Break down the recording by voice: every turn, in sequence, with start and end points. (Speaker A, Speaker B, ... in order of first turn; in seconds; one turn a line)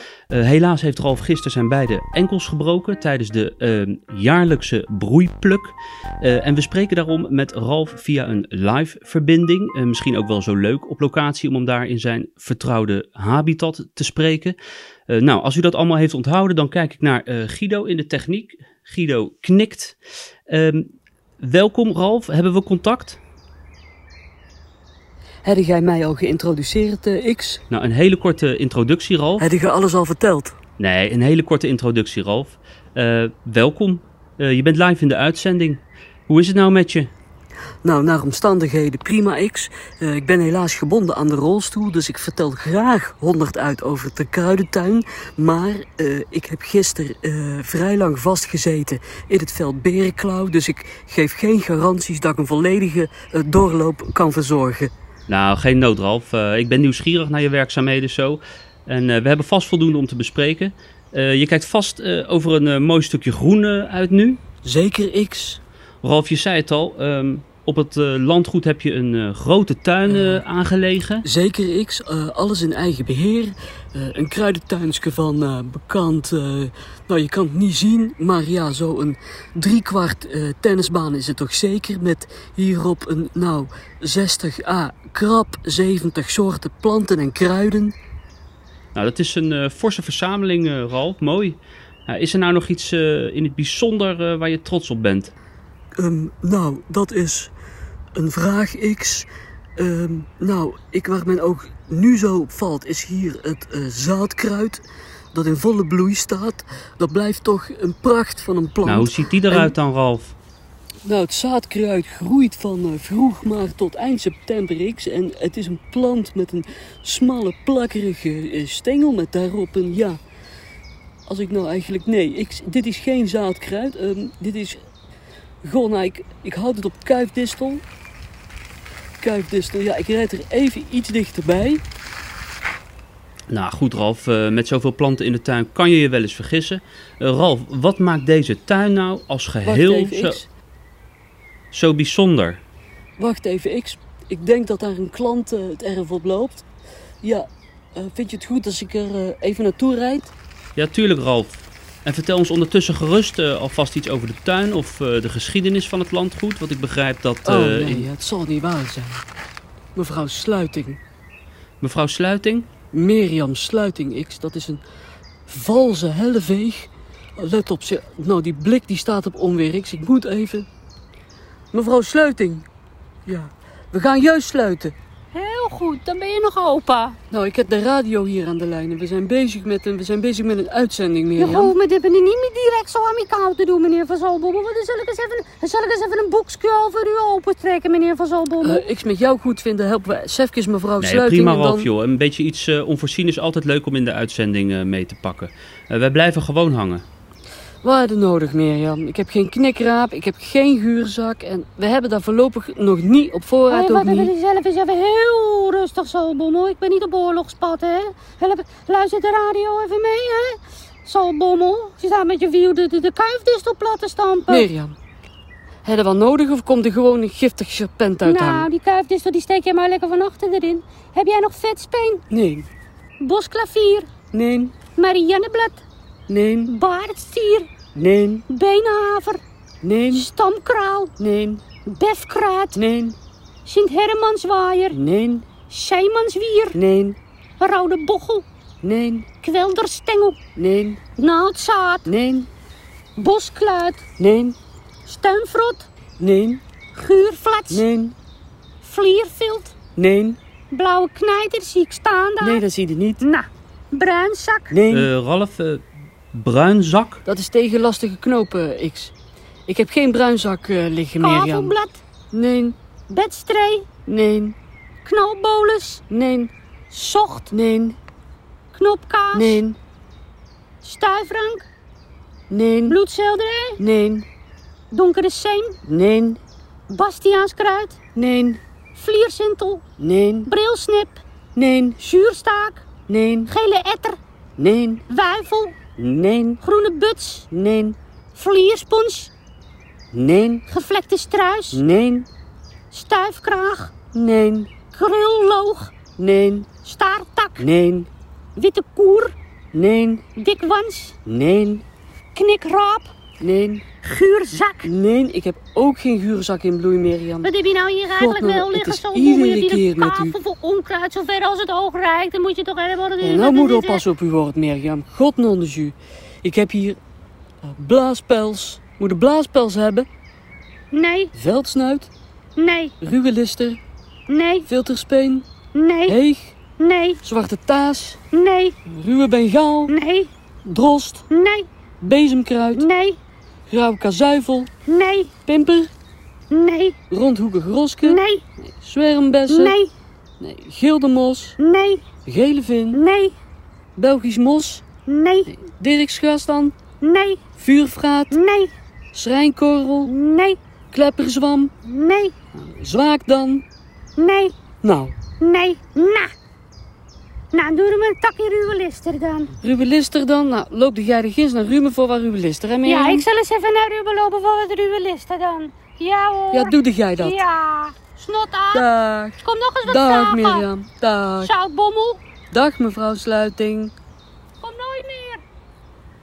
Speaker A: 0.3-14.6
Speaker A: 15.1-20.0
Speaker A: 20.5-20.9
Speaker A: 21.4-23.2
Speaker B: 25.4-27.6
Speaker A: 27.7-29.5
Speaker B: 29.4-30.6
Speaker A: 30.8-37.1
Speaker B: 37.8-54.9
Speaker A: 55.3-64.4
Speaker B: 64.6-65.6
Speaker A: 66.0-71.2
Speaker B: 70.1-70.4
Speaker B: 71.2-88.0
Speaker A: 89.0-95.3
Speaker B: 96.0-97.5
Speaker B: 98.2-104.8
Speaker B: 105.3-109.7
Speaker A: 108.8-110.4
Speaker B: 111.0-120.2
Speaker B: 121.3-124.8
Speaker B: 125.6-127.8
Speaker B: 129.2-131.8
Speaker A: 133.5-140.4
Speaker B: 139.7-140.5
Speaker A: 141.7-142.6
Speaker B: 143.2-146.7
Speaker B: 147.2-150.3
Speaker A: 150.8-158.1
Speaker B: 157.5-159.2
Speaker B: 159.9-161.0
Speaker A: 161.8-162.7
Speaker B: 162.9-164.8
Speaker B: 165.5-170.7
Speaker B: 171.7-172.7
Speaker B: 173.3-174.9
Speaker C: 175.3-177.2
Speaker B: 177.3-181.7
Speaker C: 181.4-188.9
Speaker B: 188.6-191.9
Speaker A: 191.0-197.1
Speaker B: 197.8-204.3
Speaker C: 203.7-214.7
Speaker B: 214.5-215.0
Speaker B: 215.8-218.7
Speaker C: 218.2-222.2
Speaker B: 222.3-222.7
Speaker C: 223.2-224.1
Speaker B: 224.3-224.8
Speaker C: 224.9-225.8
Speaker B: 226.3-226.7
Speaker C: 226.7-227.7
Speaker B: 227.9-228.4
Speaker C: 228.5-229.4
Speaker B: 229.8-230.3
Speaker C: 230.1-231.2
Speaker B: 231.2-231.6
Speaker C: 231.8-232.8
Speaker B: 232.8-233.2
Speaker C: 233.7-235.0
Speaker B: 234.9-235.5
Speaker C: 235.7-236.8
Speaker B: 236.8-237.2
Speaker C: 237.6-238.4
Speaker B: 238.8-239.3
Speaker C: 239.4-240.4
Speaker B: 240.6-241.0
Speaker C: 241.2-242.1
Speaker B: 242.1-242.5
Speaker C: 243.2-244.1
Speaker B: 244.2-244.6
Speaker C: 245.1-245.9
Speaker B: 246.2-246.6
Speaker C: 246.9-247.8
Speaker B: 247.7-248.2
Speaker C: 248.8-249.7
Speaker B: 250.0-250.4
Speaker C: 250.7-252.6
Speaker B: 252.4-253.2
Speaker C: 253.2-254.8
Speaker B: 254.7-255.1
Speaker A: 254.9-257.2
Speaker B: 257.3-259.1
Speaker B: 259.7-261.8
Speaker C: 261.2-262.0
Speaker B: 262.3-262.8
Speaker C: 263.1-263.9
Speaker B: 264.1-264.6
Speaker C: 265.1-266.0
Speaker B: 266.1-266.5
Speaker C: 266.9-267.5
Speaker B: 267.5-268.0
Speaker C: 268.7-269.6
Speaker B: 269.3-269.8
Speaker C: 270.8-271.7
Speaker B: 272.5-273.0
Speaker C: 272.9-273.8
Speaker B: 273.8-274.3
Speaker C: 274.9-275.8
Speaker B: 275.9-276.4
Speaker C: 276.9-278.0
Speaker B: 278.2-278.6
Speaker C: 278.9-279.8
Speaker B: 280.0-280.5
Speaker C: 280.5-281.2
Speaker B: 281.6-282.0
Speaker C: 282.0-282.9
Speaker B: 283.1-283.5
Speaker C: 283.5-284.2
Speaker B: 284.6-285.0
Speaker C: 285.1-285.8
Speaker B: 286.0-286.6
Speaker C: 286.6-287.5
Speaker B: 287.5-288.0
Speaker C: 288.4-289.3
Speaker B: 290.1-290.6
Speaker C: 290.7-291.8
Speaker B: 291.7-292.3
Speaker C: 292.9-293.9
Speaker B: 294.1-294.7
Speaker C: 294.9-295.9
Speaker B: 296.2-296.7
Speaker C: 296.8-297.6
Speaker B: 297.6-298.1
Speaker C: 298.6-299.3
Speaker B: 299.7-300.2
Speaker C: 300.4-301.2
Speaker B: 301.3-301.8
Speaker C: 302.4-303.1
Speaker B: 303.4-303.9
Speaker C: 304.0-304.9
Speaker B: 304.8-307.5
Speaker C: 307.4-314.0
Speaker B: 308.1-310.4
Speaker B: 313.2-317.0
Speaker B: 317.6-320.1
Speaker C: 320.9-321.3
Speaker B: 321.4-322.1
Speaker C: 322.6-322.9
Speaker B: 323.0-323.8
Speaker C: 324.3-324.7
Speaker B: 324.7-325.5
Speaker C: 325.7-326.2
Speaker B: 326.1-326.6
Speaker C: 326.8-327.2
Speaker B: 327.2-328.2
Speaker C: 328.3-328.8
Speaker B: 328.9-329.9
Speaker C: 329.9-330.3
Speaker B: 330.6-331.3
Speaker C: 331.3-331.7
Speaker B: 332.0-332.9
Speaker C: 332.8-333.2
Speaker B: 333.7-334.7
Speaker C: 334.9-335.4
Speaker B: 335.5-335.9
Speaker C: 336.5-337.0
Speaker B: 337.1-339.8
Speaker C: 338.0-338.4
Speaker C: 339.5-339.9
Speaker B: 340.4-341.6
Speaker C: 341.6-342.1
Speaker B: 342.3-343.0
Speaker C: 342.9-343.3
Speaker B: 344.0-344.9
Speaker C: 345.1-345.5
Speaker B: 345.5-346.8
Speaker C: 347.0-347.4
Speaker B: 347.6-348.4
Speaker C: 348.3-348.7
Speaker B: 349.1-350.1
Speaker C: 350.1-350.6
Speaker B: 350.9-351.7
Speaker C: 351.8-352.4
Speaker B: 352.5-353.6
Speaker C: 354.2-354.6
Speaker B: 354.8-355.2
Speaker C: 355.4-356.3
Speaker C: 357.5-359.5
Speaker B: 359.6-363.3
Speaker C: 362.9-368.9
Speaker B: 366.5-367.4
Speaker B: 368.7-371.5
Speaker C: 369.4-370.7
Speaker C: 371.4-372.2
Speaker B: 372.5-373.9
Speaker C: 374.6-375.4